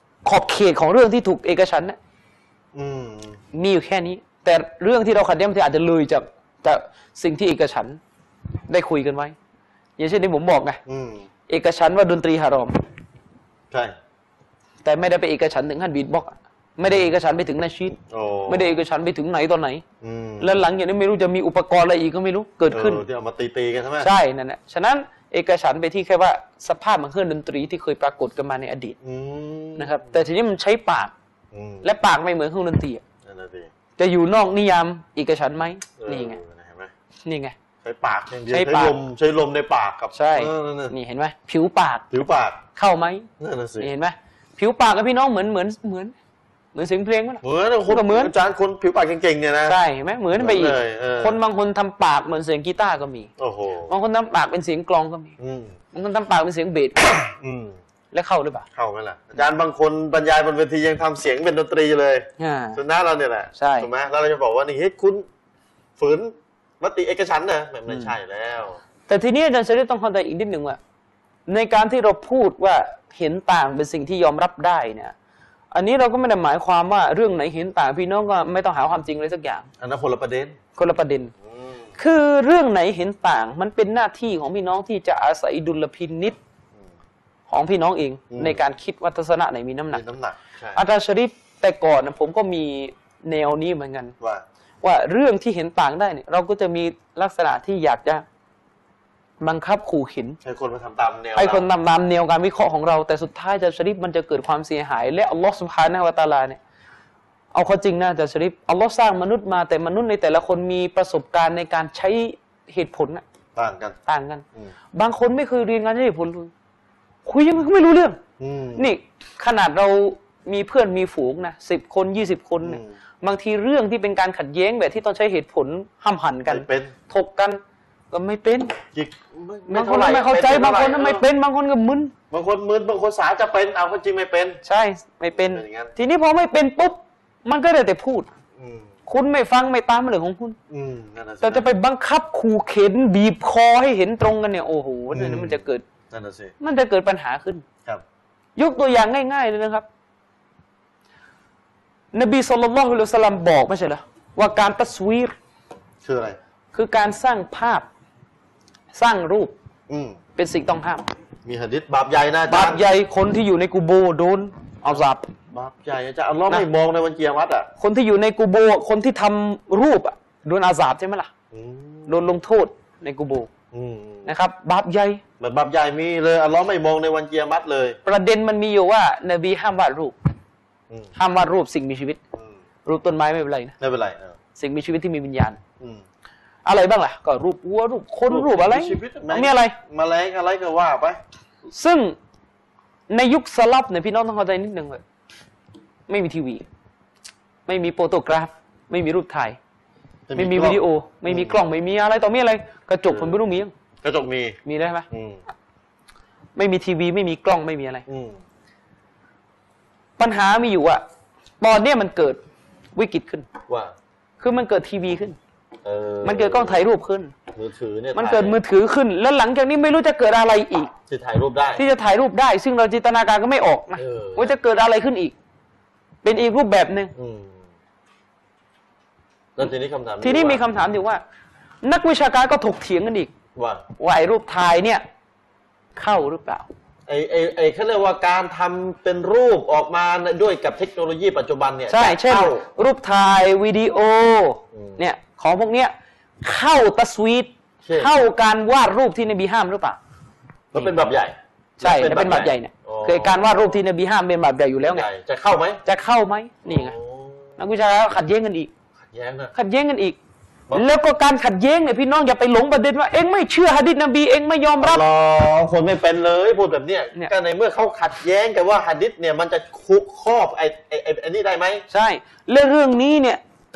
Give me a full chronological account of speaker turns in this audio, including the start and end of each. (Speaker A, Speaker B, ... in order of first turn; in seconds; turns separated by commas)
Speaker A: 0.2-2.0, Speaker B: 2.7-3.4, Speaker A: 3.5-8.0, Speaker A: 8.7-9.3, Speaker A: 10.0-10.8, Speaker B: 10.9-11.3, Speaker A: 11.5-12.8, Speaker B: 13.7-14.0, Speaker A: 14.8-18.0, Speaker B: 18.0-18.8, Speaker A: 18.5-19.8, Speaker B: 20.0-20.6, Speaker A: 20.4-23.0, Speaker B: 22.7-24.1, Speaker A: 24.0-29.0, Speaker B: 29.0-30.1, Speaker A: 29.8-31.1, Speaker B: 31.5-31.9, Speaker A: 31.8-33.0, Speaker B: 33.3-33.7, Speaker A: 34.0-36.4, Speaker B: 36.0-36.9, Speaker A: 37.2-37.5, Speaker B: 37.8-40.9, Speaker A: 38.5-39.0, Speaker A: 40.1-42.1, Speaker B: 42.1-42.6, Speaker A: 42.8-43.3, Speaker B: 43.4-43.9, Speaker A: 43.8-46.1, Speaker A: 46.7-48.3, Speaker B: 47.4-49.8, Speaker A: 49.7-53.3, Speaker B: 50.4-51.4, Speaker B: 53.4-53.9, Speaker A: 53.9-55.3, Speaker B: 55.4-55.8, Speaker A: 55.9-57.2, Speaker B: 57.4-57.8, Speaker A: 58.1-58.7, Speaker B: 58.8-65.3, Speaker A: 62.4-62.8, Speaker A: 63.6-63.9, Speaker B: 66.0-68.8, Speaker A: 67.9-68.1, Speaker A: 69.1-70.8, Speaker A: 71.5-75.1, Speaker A: 75.7-79.7, Speaker B: 79.8-80.6, Speaker A: 80.8-81.3, Speaker B: 81.4-82.0, Speaker A: 82.0-86.4, Speaker A: 87.5-90.0, Speaker B: 88.3-88.6, Speaker B: 89.9-90.8, Speaker A: 90.8-94.1, Speaker A: 94.8-98.2, Speaker A: 99.4-100.4, Speaker B: 100.4-101.7, Speaker A: 101.4-106.6, Speaker A: 107.5-113.2, Speaker B: 113.6-114.0, Speaker A: 114.1-116.5, Speaker A: 117.2-118.2, Speaker B: 118.4-118.9, Speaker A: 118.8-128.8, Speaker B: 122.6-123.0, Speaker B: 126.5-126.9, Speaker B: 128.9-131.2, Speaker A: 129.7-132.1, Speaker B: 132.3-134.6, Speaker A: 134.7-138.3, Speaker B: 135.3-135.9, Speaker B: 138.6-138.9, Speaker A: 139.1-140.6, Speaker B: 140.7-141.7, Speaker A: 141.4-145.8, Speaker B: 145.1-146.5, Speaker A: 146.6-147.6, Speaker A: 148.6-149.9, Speaker A: 152.1-155.3, Speaker B: 156.0-156.4, Speaker A: 156.7-157.9, Speaker A: 158.9-159.5, Speaker B: 159.9-160.2, Speaker A: 160.4-161.1, Speaker B: 161.5-162.8, Speaker A: 162.5-165.3, Speaker B: 164.9-167.7, Speaker A: 167.8-171.3, Speaker B: 171.5-172.2, Speaker A: 172.1-173.5, Speaker B: 173.7-174.3, Speaker A: 174.3-175.2, Speaker B: 175.4-178.0, Speaker A: 178.1-180.2, Speaker A: 181.2-182.2, Speaker A: 182.9-183.8, Speaker B: 183.8-184.4, Speaker A: 184.6-185.6, Speaker A: 186.7-189.8, Speaker B: 188.3-191.2, Speaker A: 191.7-192.2, Speaker A: 193.1-195.0, Speaker A: 196.1-196.6, Speaker A: 197.7-199.6, Speaker B: 200.3-201.6, Speaker A: 200.4-203.7, Speaker B: 203.1-203.4, Speaker B: 204.0-204.6, Speaker A: 204.7-205.1, Speaker B: 205.1-205.4, Speaker A: 206.6-208.0, Speaker B: 208.1-208.4, Speaker A: 210.2-211.0, Speaker A: 211.6-212.4, Speaker A: 212.9-213.5, Speaker B: 213.7-213.9, Speaker A: 214.4-215.4, Speaker B: 215.8-216.8, Speaker A: 216.2-217.3, Speaker B: 217.6-218.6, Speaker A: 218.1-220.9, Speaker B: 221.1-221.8, Speaker A: 221.8-225.3, Speaker B: 224.0-224.6, Speaker A: 226.2-227.1, Speaker B: 227.2-227.6, Speaker B: 229.6-230.6, Speaker A: 230.2-231.2, Speaker A: 231.8-233.3, Speaker B: 233.6-233.8, Speaker A: 234.0-235.1, Speaker A: 236.0-236.7, Speaker B: 237.1-242.6, Speaker A: 241.9-250.0, Speaker B: 244.7-245.0, Speaker B: 247.8-248.1, Speaker B: 250.7-253.8, Speaker A: 251.8-255.1, Speaker B: 254.8-255.8, Speaker A: 255.8-256.9, Speaker B: 256.6-257.6, Speaker A: 257.6-258.7, Speaker B: 259.1-259.5, Speaker A: 259.5-260.2, Speaker A: 260.7-265.0, Speaker B: 264.8-271.9, Speaker A: 271.9-273.4